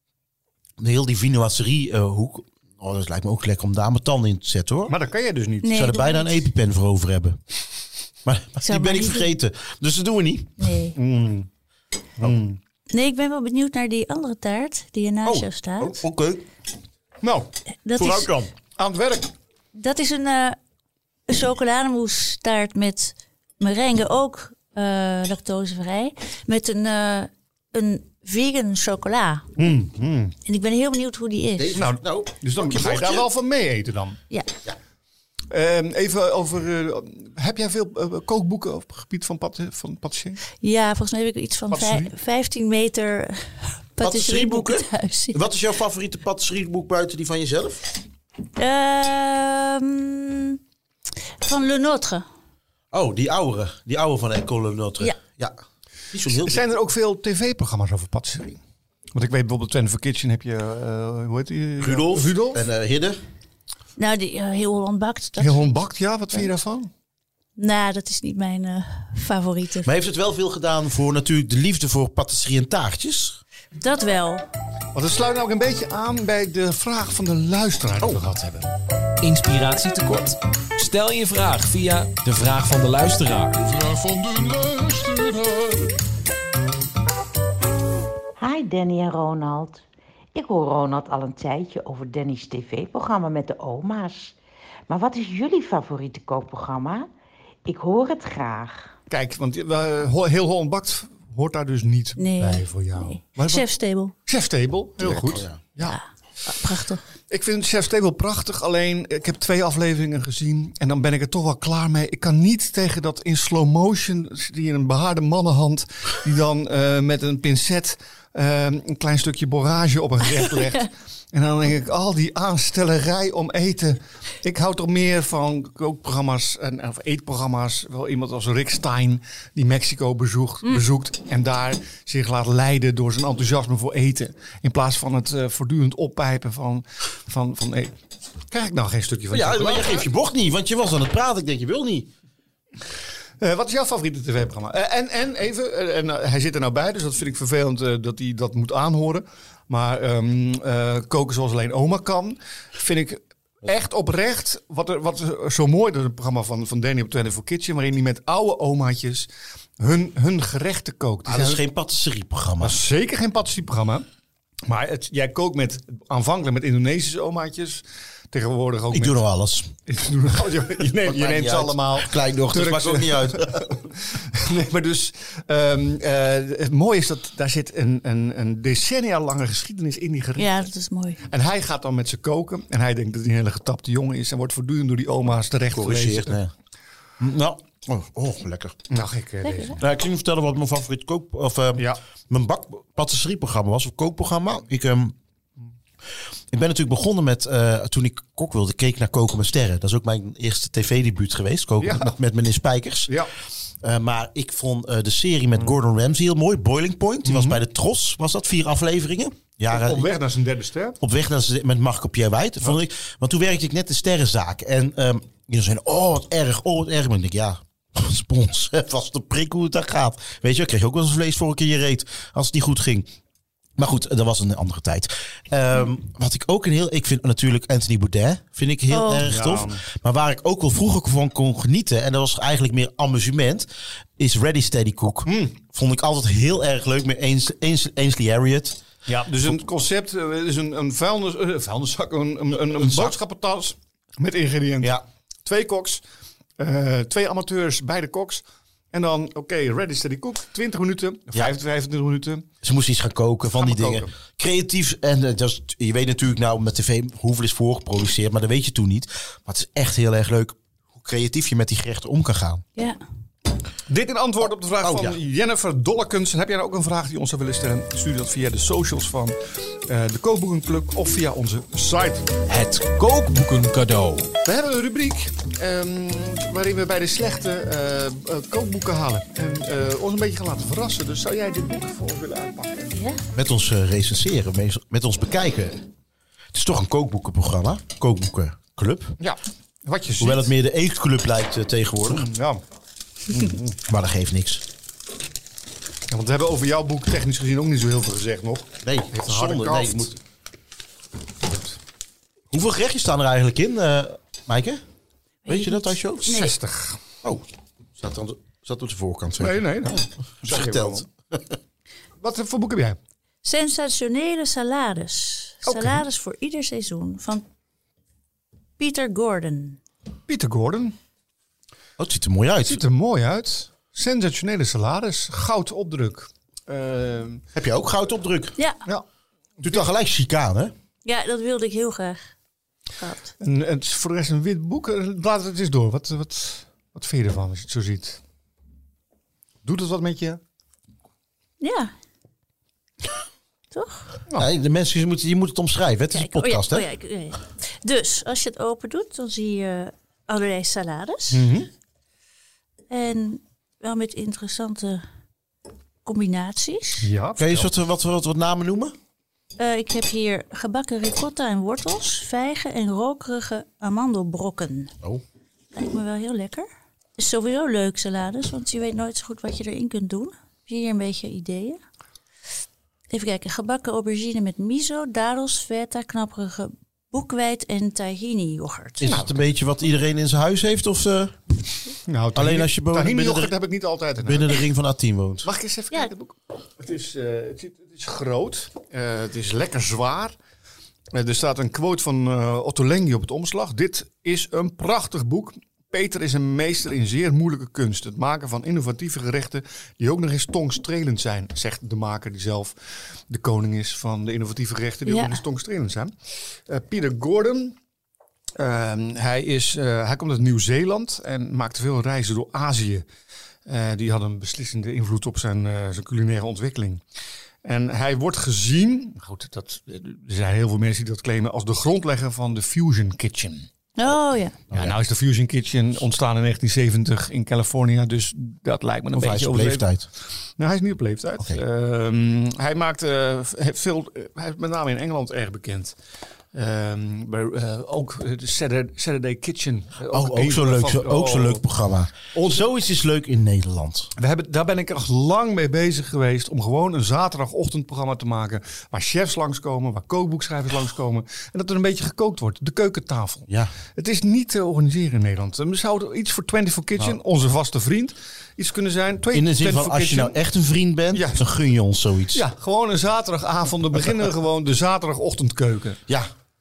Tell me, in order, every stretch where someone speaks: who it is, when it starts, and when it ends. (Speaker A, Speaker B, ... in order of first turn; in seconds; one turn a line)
Speaker A: 0.8-5.0
Speaker B: 4.9-5.8
Speaker C: 5.6-6.5
Speaker A: 5.7-7.4
Speaker A: 8.2-10.7
Speaker C: 8.6-9.3
Speaker C: 10.6-11.0
Speaker B: 11.0-11.5
Speaker B: 12.2-12.6
Speaker C: 12.9-16.0
Speaker A: 15.2-16.5
Speaker B: 17.2-17.5
Speaker C: 17.9-18.3
Speaker A: 18.0-18.5
Speaker B: 18.8-19.3
Speaker C: 19.7-20.6
Speaker C: 21.3-29.6
Speaker B: 29.6-30.4
Speaker C: 30.4-31.8
Speaker A: 31.6-33.3
Speaker B: 31.8-34.2
Speaker B: 35.5-40.4
Speaker C: 40.6-45.4
Speaker B: 41.7-42.1
Speaker A: 44.0-47.9
Speaker C: 48.6-50.6
Speaker C: 51.4-52.2
Speaker A: 52.9-55.6
Speaker A: 56.1-56.6
Speaker B: 56.3-58.6
Speaker B: 59.1-62.6
Speaker A: 61.8-63.2
Speaker C: 64.0-65.6
Speaker B: 65.4-66.9
Speaker C: 67.6-69.9
Speaker A: 69.8-73.4
Speaker C: 73.8-74.5
Speaker B: 74.9-78.7
Speaker D: 79.2-85.9
Speaker E: 88.4-89.8
Speaker E: 90.3-94.3
Speaker E: 94.9-97.1
Speaker E: 97.7-98.9
Speaker B: 99.1-103.7
Speaker C: 102.2-104.1
Speaker B: 104.3-106.0
Speaker A: 105.0-105.6
Speaker C: 105.8-107.0
Speaker B: 107.3-137.9
Speaker B: 138.5-140.1
Speaker A: 139.3-142.1
Speaker B: 143.4-159.3
Speaker B: 159.8-161.6
Speaker A: 161.3-162.8
Speaker B: 162.6-164.1
Speaker B: 164.7-169.2
Speaker A: 168.9-169.7
Speaker B: 169.9-180.7
Speaker A: 171.0-173.8
Speaker C: 180.4-181.2
Speaker B: 181.3-186.4
Speaker A: 185.7-186.5
Speaker A: 187.2-188.8
Speaker B: 188.9-189.8
Speaker C: 189.4-189.8
Speaker A: 189.8-195.2
Speaker A: 196.5-203.2
Speaker B: 201.8-202.2
Speaker B: 203.1-203.3
Speaker A: 203.8-210.1
Speaker B: 207.2-207.6
Speaker B: 209.7-211.0
Speaker A: 211.0-223.1
Speaker A: 223.8-238.8
Speaker C: 228.9-229.3
Speaker B: 229.2-229.8
Speaker B: 235.3-235.6
Speaker B: 239.1-246.0
Speaker A: 242.8-243.2
Speaker B: 246.6-252.5
Speaker A: 252.6-262.6
Speaker B: 253.6-254.1
Speaker B: 263.9-269.4
Speaker A: 264.8-265.2
Speaker B: 269.9-272.3
Speaker D: 272.5-274.3
Speaker B: 274.4-283.0
Speaker C: 282.9-283.2
Speaker A: 283.3-285.9
Speaker A: 286.5-289.2
Speaker B: 289.2-290.5
Speaker A: 290.2-292.3
Speaker B: 292.1-292.6
Speaker B: 293.3-293.8
Speaker A: 293.9-294.6
Speaker B: 296.1-300.1
Speaker A: 298.8-300.2
Speaker B: 301.5-301.8
Speaker A: 302.5-304.8
Speaker C: 305.5-306.5
Speaker A: 305.5-306.4
Speaker B: 306.3-307.0
Speaker A: 308.0-311.6
Speaker B: 309.4-311.1
Speaker B: 312.2-313.0
Speaker C: 313.4-317.4
Speaker B: 315.6-316.0
Speaker C: 318.8-319.8
Speaker B: 320.3-320.9
Speaker A: 322.0-322.8
Speaker B: 322.6-327.4
Speaker A: 327.6-328.6
Speaker B: 329.6-329.9
Speaker A: 329.6-330.7
Speaker C: 331.1-332.2
Speaker C: 333.0-333.3
Speaker B: 333.4-338.2
Speaker B: 339.6-340.4
Speaker C: 341.6-341.9
Speaker C: 343.7-344.1
Speaker A: 344.4-346.9
Speaker C: 346.1-351.5
Speaker B: 351.3-351.7
Speaker C: 352.9-355.0
Speaker C: 356.1-357.1
Speaker B: 357.0-357.7
Speaker A: 357.4-358.9
Speaker C: 359.6-364.9
Speaker C: 365.7-366.7
Speaker C: 367.2-371.8
Speaker C: 373.1-379.1
Speaker A: 379.0-381.4
Speaker B: 379.1-379.4
Speaker B: 382.1-384.6
Speaker A: 382.4-383.5
Speaker A: 384.2-385.5
Speaker B: 385.4-390.4
Speaker B: 391.1-402.7
Speaker B: 403.3-406.1
Speaker C: 405.1-405.4
Speaker B: 406.7-407.8
Speaker B: 408.6-413.1
Speaker B: 413.7-417.0
Speaker B: 417.6-423.7
Speaker C: 424.0-424.6
Speaker A: 424.7-425.0
Speaker B: 424.7-429.9
Speaker A: 429.2-430.1
Speaker B: 430.6-435.9
Speaker B: 436.5-441.6
Speaker A: 440.1-444.1
Speaker B: 442.3-442.6
Speaker B: 444.2-460.4
Speaker A: 453.5-453.7
Speaker A: 459.3-462.4
Speaker B: 461.1-461.5
Speaker B: 462.3-466.0